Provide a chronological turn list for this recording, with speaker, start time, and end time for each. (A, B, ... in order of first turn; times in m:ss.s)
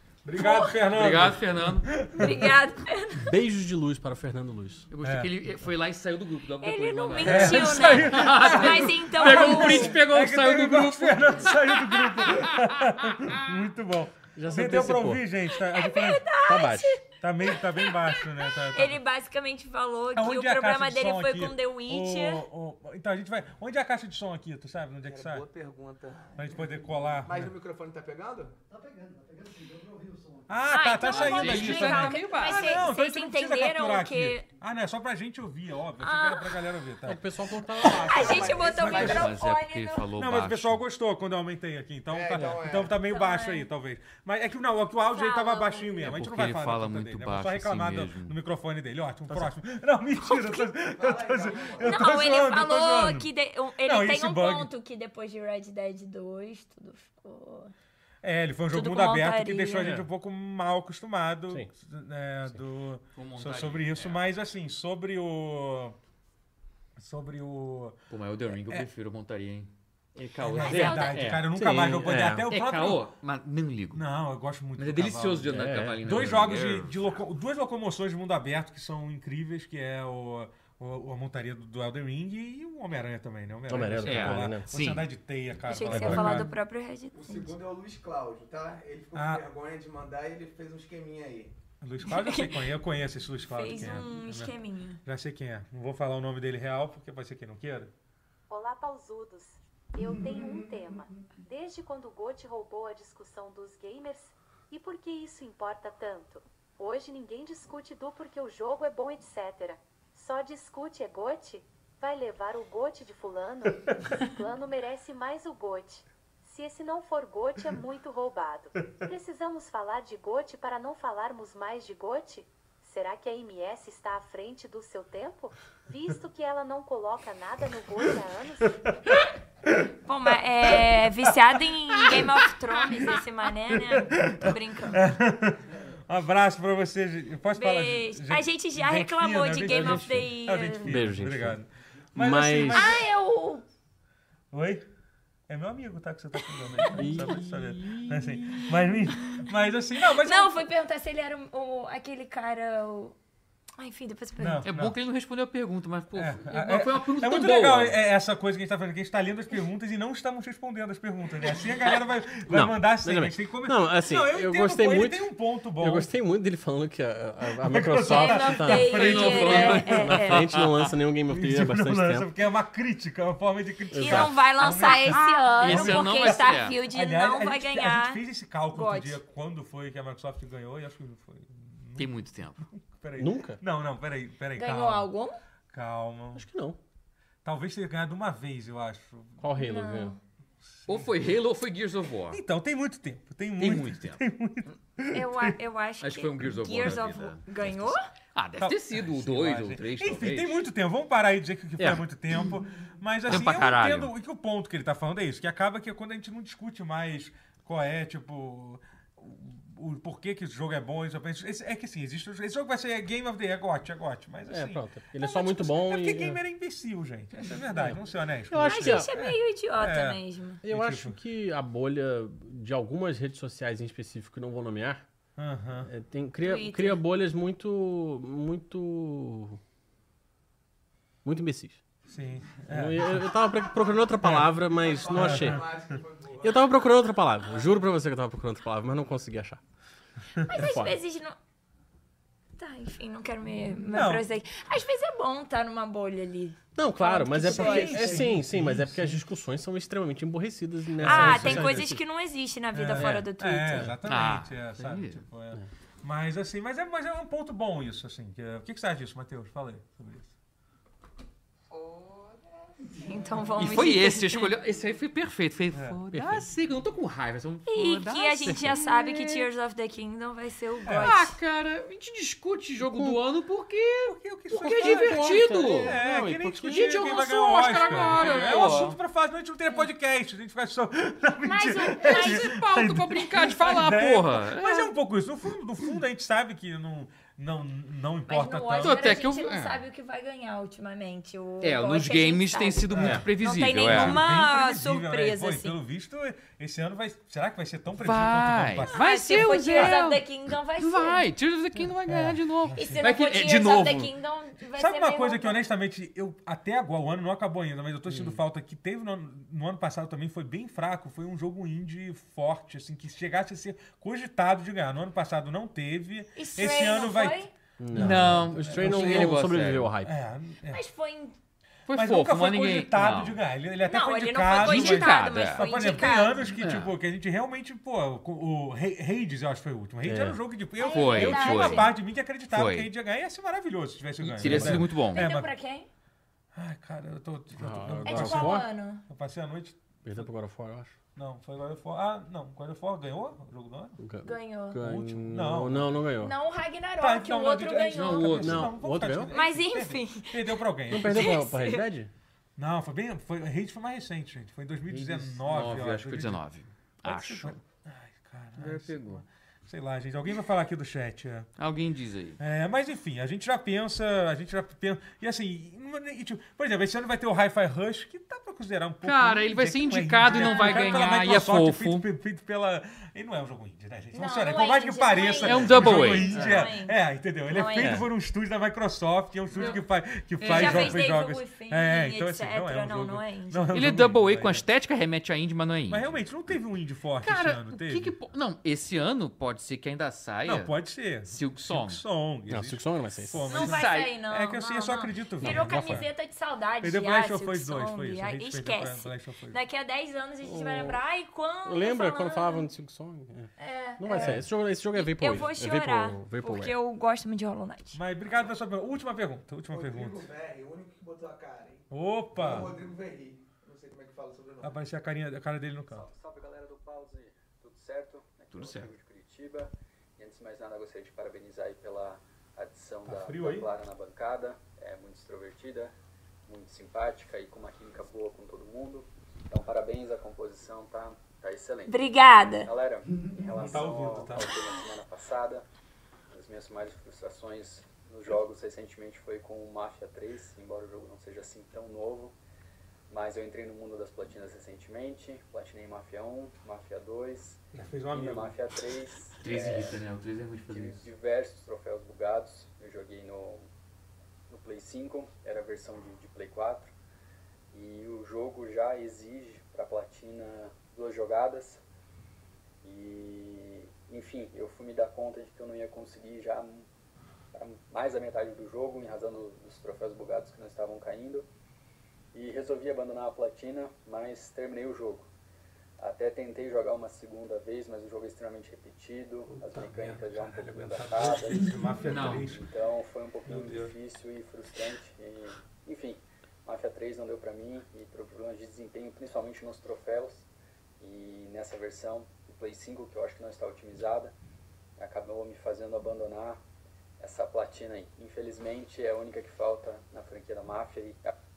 0:00.2-0:02.6 A
0:00.4-0:00.8 B
0:00.9-0:01.9 C
0:02.1-0:03.3 B
0:03.2-0:04.9 D
0:04.9-0:13.4 C
0:05.0-0:05.3 A
0:06.6-0:10.0 B
0:07.2-0:16.3 A
0:14.3-0:15.2 D
0:15.5-0:22.4 B
0:16.4-0:17.0 D
0:17.2-0:19.0 A
0:20.1-0:25.4 A
0:25.0-0:26.4 E
0:26.4-0:27.5 A
0:27.2-0:28.6 E
0:28.7-0:30.7 F
0:30.5-0:37.3 A
0:30.7-0:34.4 B
0:31.0-0:32.9 C
0:36.0-0:36.6 B
0:37.0-0:38.8 D
0:37.8-0:39.4 A
0:37.8-0:39.3 E
0:38.0-0:40.1 B
0:38.8-0:40.8 C
0:40.2-0:53.3 A
0:42.1-0:43.0 E
0:42.3-0:42.6 D
0:43.0-0:43.7 B
0:45.1-0:46.2 B
0:46.0-0:48.4 C
0:50.2-0:50.7 B
0:50.8-0:52.3 E
0:51.8-0:57.7 B
0:53.8-0:54.7 A
0:58.2-1:06.0 A
0:58.7-0:59.9 B
0:59.8-1:00.1 D
1:03.1-1:04.2 C
1:07.0-1:08.0 A
1:08.1-1:11.5 C
1:10.4-1:13.0 A
1:10.6-1:11.4 B
1:11.5-1:12.5 D
1:12.5-1:14.0 C
1:13.9-1:26.5 A
1:14.8-1:17.2 C
1:15.5-1:16.2 D
1:23.7-1:24.7 D
1:24.0-1:25.1 C
1:25.7-1:27.5 B
1:25.9-1:26.3 D
1:27.1-1:31.5 E
1:29.1-1:29.4 A
1:31.8-1:37.9 A
1:32.0-1:32.6 B
1:33.5-1:35.0 B
1:38.5-2:08.8 G
2:09.0-2:09.9 A
2:10.0-2:15.0 B
2:10.6-2:12.4 A
2:13.7-2:23.1 A
2:17.5-2:21.0 B
2:19.6-2:20.3 D
2:20.8-2:21.6 D
2:22.1-2:22.9 D
2:22.7-2:23.6 B
2:24.5-2:24.8 A
2:25.5-2:30.6 A
2:26.9-2:29.0 D
2:30.1-2:33.2 B
2:33.8-2:34.7 B
2:34.4-2:35.0 A
2:34.6-2:38.0 C
2:36.1-2:46.1 A
2:42.5-2:52.3 D
2:47.6-2:50.2 A
2:48.0-2:50.4 B
2:48.9-2:50.9 C
2:51.3-3:05.1 A
2:53.9-2:54.4 D
2:53.9-2:58.2 B
2:54.7-2:56.8 C
2:58.7-2:59.2 B
3:02.0-3:02.6 C
3:03.2-3:03.6 D
3:04.6-3:05.4 B
3:05.7-3:06.5 A
3:06.3-3:06.8 D
3:07.4-3:09.4 A
3:09.4-3:10.2 D
3:09.6-3:10.2 B
3:10.8-3:11.1 A
3:10.9-3:12.4 C
3:12.3-3:15.6 A
3:13.6-3:14.2 C
3:15.1-3:18.1 B
3:16.0-3:20.6 C
3:18.6-3:41.2 A
3:21.8-3:22.0 D
3:23.2-3:24.1 C
3:34.5-3:36.4 D
3:37.8-3:39.1 D
3:38.6-3:40.6 B
3:40.6-3:45.0 D
3:45.4-3:45.9 A
3:45.8-3:49.6 D
3:46.4-3:47.0 B
3:51.2-3:51.8 D
3:52.1-3:53.4 A
3:52.7-3:55.6 D
3:54.2-3:54.6 A
3:54.6-3:56.7 E
3:55.1-3:55.7 A
3:56.4-3:59.6 D
4:00.4-4:01.3 B
4:00.5-4:01.0 D
4:02.6-4:08.3 B
4:03.9-4:04.2 A
4:06.7-4:12.0 D
4:07.3-4:09.2 A
4:11.0-4:11.8 A
4:11.0-4:13.9 B
4:12.7-4:20.3 A
4:13.0-4:13.9 D
4:14.0-4:15.2 C
4:23.0-4:24.5 B
4:23.6-4:28.8 C
4:25.7-4:26.2 A
4:27.7-4:31.3 B
4:28.4-4:29.5 D
4:30.8-4:31.2 A
4:31.0-4:36.0 C
4:32.8-4:33.2 D
4:34.0-4:49.2 A
4:34.5-4:38.5 D
4:36.6-4:39.0 C
4:37.7-4:38.8 B
4:41.4-4:42.5 B
4:42.0-4:44.9 C
4:48.3-4:55.8 B
4:48.8-4:49.8 C
4:51.6-4:54.2 C
4:52.9-4:53.2 A
4:53.9-5:00.0 A
4:58.0-5:04.1 C
4:58.8-5:01.2 B
5:02.0-5:03.1 A
5:02.8-5:05.6 B
5:04.7-5:17.4 A
5:08.1-5:08.4 D
5:16.4-5:17.5 B
5:17.8-5:20.2 D
5:17.9-5:20.8 A
5:17.9-5:19.9 C
5:20.7-5:21.3 B
5:21.9-5:23.4 C
5:21.9-5:35.5 A
5:23.8-5:26.6 B
5:24.5-5:26.9 C
5:30.0-5:30.4 D
5:30.8-5:31.9 B
5:30.8-5:32.0 C
5:32.5-5:32.9 C
5:34.2-5:35.2 C
5:34.4-5:34.9 D
5:35.1-5:35.9 B
5:36.5-5:40.2 A
5:37.5-5:38.7 D
5:38.0-5:39.0 B
5:40.0-5:41.0 D
5:41.1-5:44.0 A
5:44.0-5:46.3 D
5:44.2-5:44.8 B
5:44.7-5:46.0 A
5:46.2-5:48.4 B
5:47.0-5:51.4 A
5:47.9-5:48.7 C
5:48.4-5:49.3 D
5:49.3-5:51.8 B
5:50.9-5:52.1 D
5:52.6-5:56.4 A
5:54.9-5:57.6 C
5:57.0-6:01.5 A
5:58.6-5:59.2 C
6:01.6-6:02.4 C
6:02.4-6:24.6 A
6:09.0-6:12.1 C
6:10.2-6:11.2 B
6:14.1-6:17.0 B
6:15.4-6:16.7 C
6:17.5-6:18.0 B
6:17.8-6:18.1 D
6:19.5-6:19.8 B
6:20.4-6:21.0 C
6:20.4-6:23.7 B
6:23.7-6:26.2 C
6:25.9-6:28.1 A
6:27.2-6:32.0 C
6:30.4-6:36.1 A
6:32.5-6:33.4 D
6:33.4-6:34.1 C
6:33.5-6:42.7 B
6:35.4-6:36.0 D
6:36.8-6:39.6 A
6:40.4-6:41.0 D
6:41.6-6:46.8 D
6:43.6-6:48.0 B
6:44.1-6:44.4 A
6:47.9-6:50.3 A
6:49.7-6:54.8 E
6:51.9-6:52.8 A
6:54.6-6:56.0 A
6:55.9-7:05.9 H
6:58.5-6:58.9 C
7:03.0-7:03.7 A
7:06.4-7:12.0 H
7:11.9-7:12.7 B
7:12.6-7:15.6 H
7:13.5-7:14.5 A
7:16.3-7:22.4 H
7:23.1-7:30.0 H
7:27.7-7:28.6 A
7:29.4-7:31.0 C
7:30.7-7:33.6 H
7:34.5-7:36.9 H
7:37.7-7:41.8 H
7:42.8-7:46.9 H
7:47.5-7:51.4 H
7:52.3-7:55.3 H
7:56.0-8:10.5 H
7:59.5-8:02.6 A
8:02.0-8:02.5 C
8:03.5-8:03.9 A
8:11.0-8:14.3 H
8:15.0-8:16.6 H
8:17.2-8:21.4 H